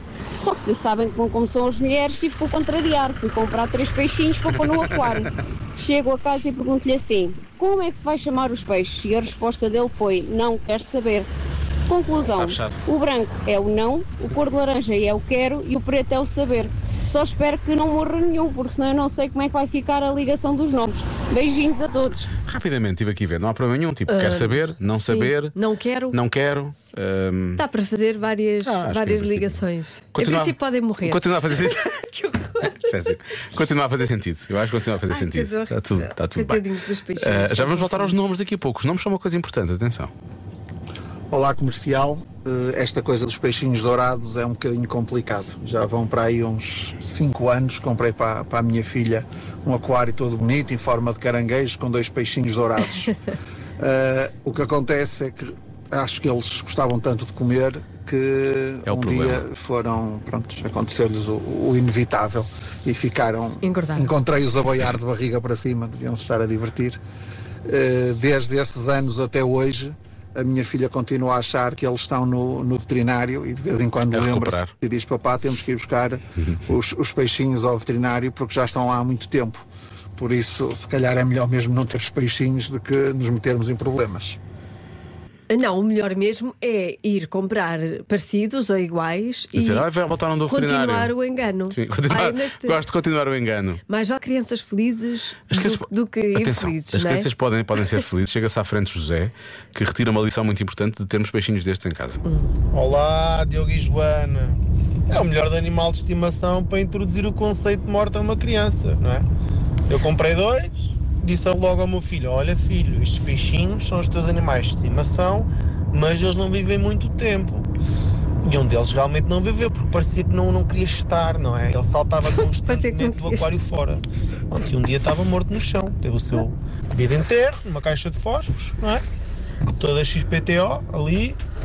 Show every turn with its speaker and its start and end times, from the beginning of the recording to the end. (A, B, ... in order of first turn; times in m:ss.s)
0:00.3-0:11.3 A
0:11.9-0:22.3 A
0:12.3-0:12.8 B
0:22.4-0:25.6 B
0:24.1-0:26.2 C
0:26.1-0:27.6 B
0:27.6-0:33.1 C
0:28.6-0:29.6 B
0:30.1-0:31.9 B
0:32.9-0:36.6 B
0:35.1-0:38.2 C
0:37.2-0:40.1 B
0:41.3-0:53.1 D
0:53.8-1:07.0 D
0:58.9-0:59.4 B
1:03.6-1:04.2 C
1:07.7-1:19.6 D
1:14.1-1:14.7 B
1:20.2-1:24.4 D
1:25.5-1:29.9 C
1:29.5-1:31.1 B
1:30.5-1:32.8 C
1:31.7-1:33.8 B
1:33.9-1:37.3 C
1:35.5-1:42.2 B
1:42.3-1:42.5 C
1:42.7-1:49.3 E
1:49.9-1:57.7 E
1:58.4-2:09.0 E
2:02.4-2:03.5 C
2:09.7-2:11.4 E